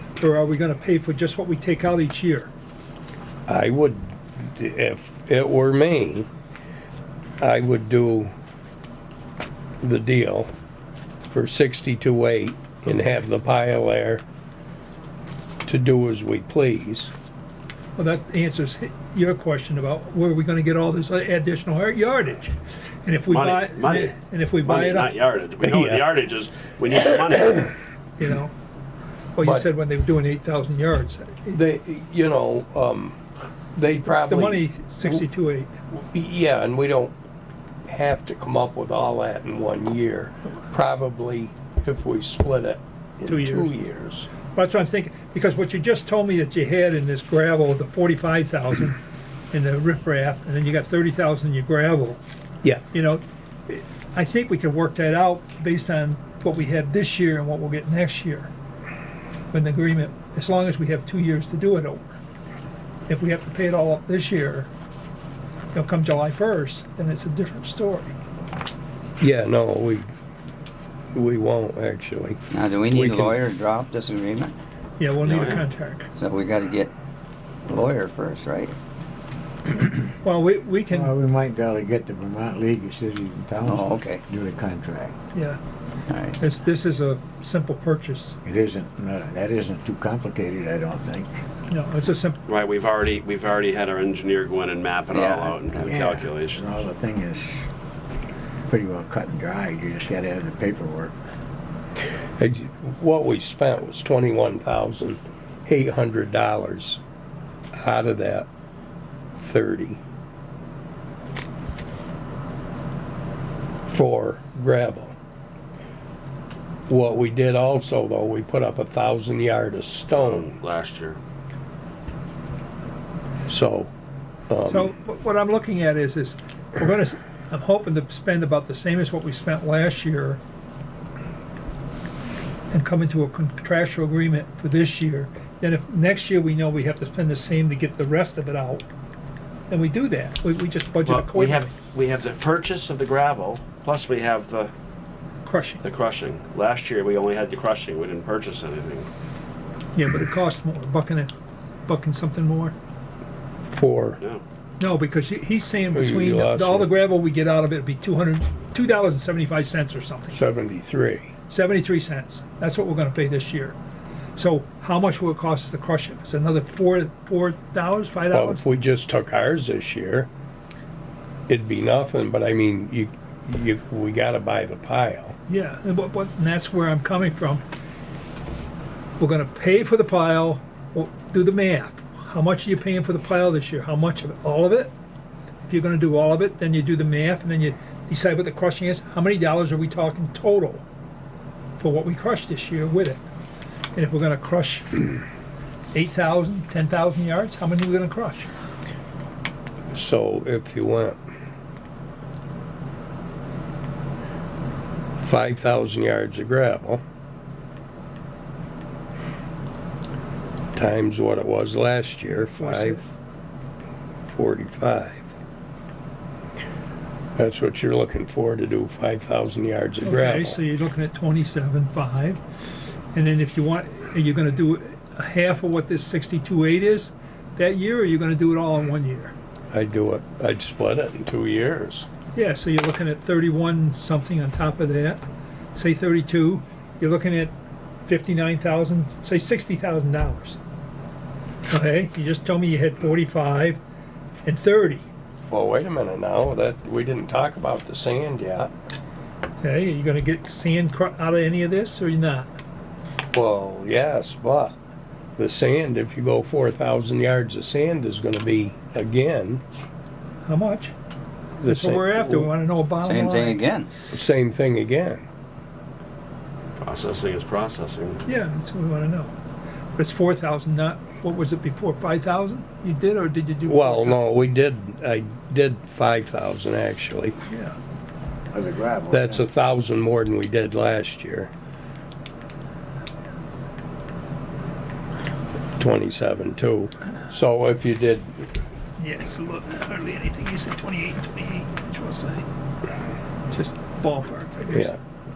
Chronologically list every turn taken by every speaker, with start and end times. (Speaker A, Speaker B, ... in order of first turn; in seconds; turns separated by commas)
Speaker A: 0.2-2.5, Speaker B: 3.5-6.3, Speaker B: 7.4-8.3, Speaker B: 9.8-10.5, Speaker B: 11.3-14.2, Speaker B: 15.6-17.1, Speaker A: 18.0-25.1, Speaker C: 23.3-27.7, Speaker B: 25.6-26.1, Speaker A: 28.2-28.5, Speaker A: 29.3-31.6, Speaker B: 29.4-29.7, Speaker B: 31.5-33.2, Speaker B: 33.7-35.2, Speaker A: 34.2-35.7, Speaker B: 35.9-37.1, Speaker B: 37.9-44.3, Speaker A: 43.3-43.7, Speaker A: 44.5-49.0, Speaker A: 49.5-52.2, Speaker A: 52.9-58.5, Speaker A: 59.5-62.1, Speaker A: 63.1-64.7, Speaker A: 65.7-68.1, Speaker B: 69.2-70.1, Speaker B: 71.1-73.4, Speaker D: 72.5-74.5, Speaker A: 75.0-76.1, Speaker C: 75.2-75.6, Speaker D: 76.1-76.9, Speaker D: 77.7-78.8, Speaker A: 80.2-81.1, Speaker E: 80.9-85.1, Speaker D: 83.6-84.2, Speaker A: 85.3-85.6, Speaker D: 86.1-86.4, Speaker A: 86.4-88.4, Speaker E: 88.4-91.3, Speaker A: 91.7-92.4, Speaker C: 92.5-96.8, Speaker D: 95.1-95.9, Speaker E: 95.8-97.7, Speaker E: 98.7-101.1, Speaker B: 102.4-107.0, Speaker B: 107.7-108.5, Speaker B: 109.3-110.0, Speaker B: 113.9-115.1, Speaker B: 116.9-120.5, Speaker C: 120.1-121.2, Speaker B: 123.5-123.9, Speaker B: 124.5-124.9, Speaker A: 124.7-130.4, Speaker A: 132.7-138.9, Speaker A: 139.7-141.7, Speaker C: 141.0-144.7, Speaker A: 145.4-145.8, Speaker C: 145.8-149.1, Speaker A: 149.9-151.3, Speaker A: 151.9-152.7, Speaker B: 153.7-154.2, Speaker A: 154.8-160.4, Speaker B: 155.9-156.9, Speaker B: 160.3-161.3, Speaker A: 161.5-163.8, Speaker A: 164.3-168.6, Speaker B: 168.3-170.3, Speaker B: 171.5-175.3, Speaker A: 175.5-177.6, Speaker A: 179.2-184.9, Speaker A: 185.7-190.8, Speaker A: 191.8-193.2, Speaker A: 193.9-195.1, Speaker A: 195.9-198.5, Speaker B: 199.9-201.2, Speaker B: 205.2-207.0, Speaker B: 210.7-213.1, Speaker A: 212.4-213.0, Speaker B: 214.3-215.3, Speaker B: 217.4-220.6, Speaker A: 220.0-222.4, Speaker A: 223.1-229.3, Speaker B: 229.7-232.1, Speaker A: 232.3-235.2, Speaker A: 235.7-237.5, Speaker A: 238.1-240.6, Speaker A: 241.7-243.8, Speaker A: 244.4-245.0, Speaker B: 245.5-248.7, Speaker A: 249.6-252.5, Speaker B: 253.3-254.8, Speaker B: 255.4-259.6, Speaker A: 260.4-260.9, Speaker B: 261.6-262.5, Speaker A: 261.6-263.6, Speaker D: 263.0-263.9, Speaker B: 264.1-265.2, Speaker C: 266.8-268.2, Speaker A: 268.2-269.3, Speaker A: 269.9-274.2, Speaker B: 273.6-277.4, Speaker A: 277.5-277.7, Speaker E: 278.5-279.4, Speaker B: 279.1-281.5, Speaker B: 285.8-288.5, Speaker A: 289.0-292.4, Speaker A: 293.5-294.9, Speaker B: 294.7-295.0